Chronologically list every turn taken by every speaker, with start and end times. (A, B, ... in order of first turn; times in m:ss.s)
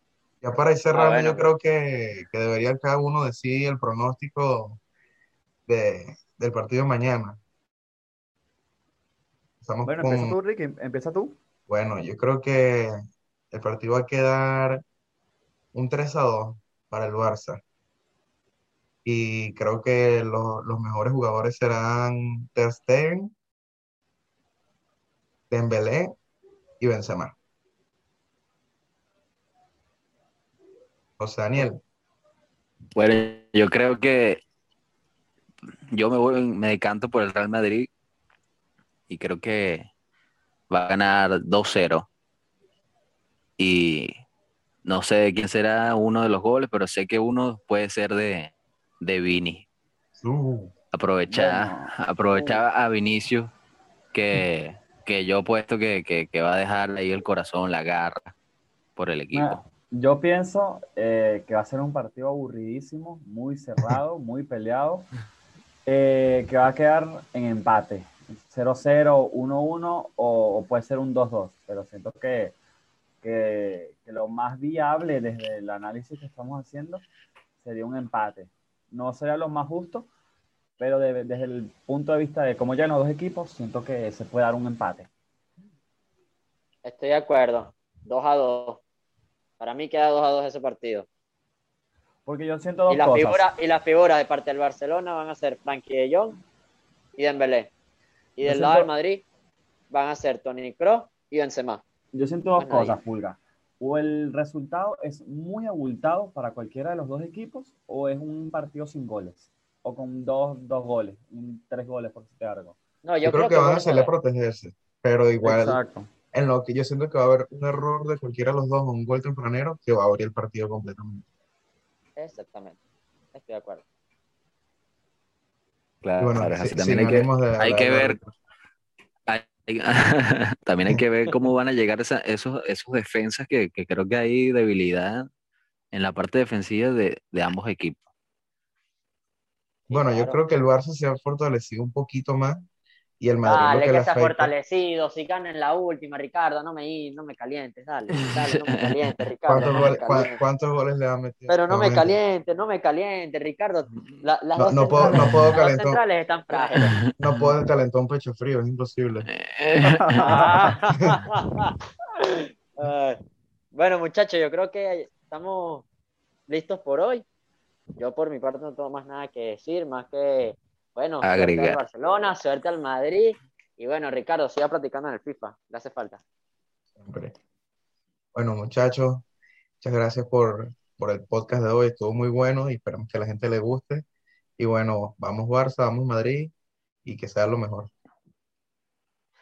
0:00.4-0:04.8 A
0:00.9-0:01.5 B
0:05.7-0:07.4 A
0:09.6-0:10.4 A
0:09.8-0:11.4 C
0:11.7-0:13.0 A
0:13.5-0:14.8 A
0:15.7-0:17.6 A
0:19.0-0:23.3 A
0:25.5-0:26.1 A
0:26.8-0:27.3 A
0:31.2-0:31.8 A
0:32.9-0:34.4 D
0:35.9-0:37.9 D
0:39.1-0:39.9 D
0:40.7-0:42.1 D
0:43.6-0:44.1 D
0:44.8-0:49.6 D
0:50.1-0:50.7 A
0:50.9-0:53.5 D
0:51.3-0:52.5 C
0:54.1-0:58.3 D
0:59.0-0:59.6 D
0:59.3-1:05.1 C
1:05.8-1:12.5 C
1:13.2-1:17.0 C
1:17.6-1:20.1 C
1:20.8-1:25.1 C
1:26.8-1:28.8 B
1:29.6-1:31.1 B
1:32.2-1:33.4 C
1:32.9-1:36.4 B
1:37.2-1:37.7 B
1:38.4-1:39.2 B
1:38.4-1:38.9 C
1:39.9-1:41.8 B
1:42.1-1:52.8 C
1:42.6-1:43.0 B
1:53.0-1:54.1 B
1:53.2-1:55.8 A
1:55.4-1:56.1 C
1:56.3-2:01.2 A
2:02.2-2:02.8 B
2:03.3-2:03.8 B
2:06.0-2:08.2 D
2:06.2-2:08.3 A
2:09.3-2:15.3 D
2:15.9-2:18.0 D
2:19.9-2:20.4 B
2:19.9-2:22.6 A
2:23.2-2:24.5 A
2:23.4-2:30.4 B
2:29.5-2:32.2 A
2:31.5-2:37.0 B
2:34.6-2:36.0 A
2:37.2-2:39.3 A
2:39.4-2:40.2 D
2:39.9-2:40.7 C
2:40.2-2:43.2 B
2:43.7-2:45.8 B
2:46.5-2:47.2 B
2:48.0-2:56.2 B
2:51.2-2:51.8 D
2:57.0-2:57.3 A
2:58.3-2:59.2 A
2:59.8-3:04.0 A
3:04.6-3:06.5 A
3:07.0-3:07.9 A